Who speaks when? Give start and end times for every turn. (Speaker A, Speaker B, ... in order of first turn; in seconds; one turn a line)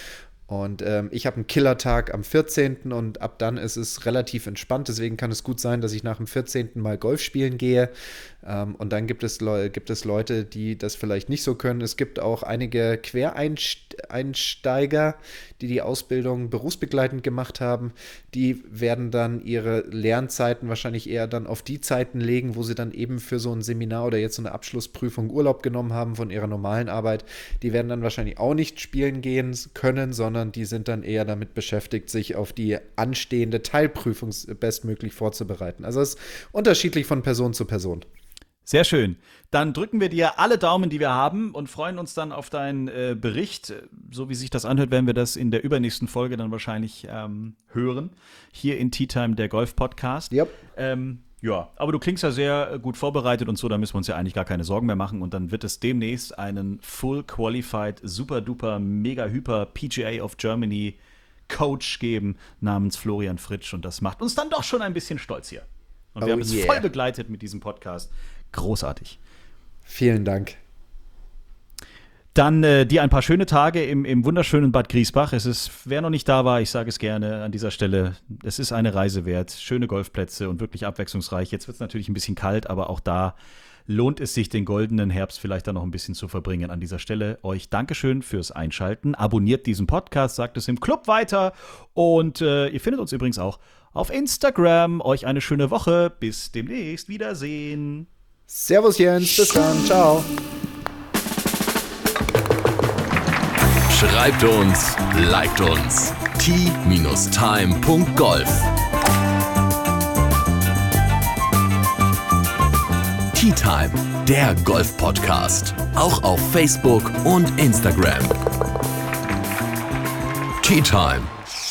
Speaker A: 0.5-7.9
Speaker A: 8.4-38.0
Speaker B: 38.6-69.2
Speaker A: 66.2-66.8
Speaker A: 69.9-70.6
Speaker B: 72.3-83.3
Speaker B: 83.9-98.1
Speaker A: 98.5-100.3
Speaker C: 103.9-108.7
Speaker C: 113.3-118.4
Speaker C: 120.6-121.3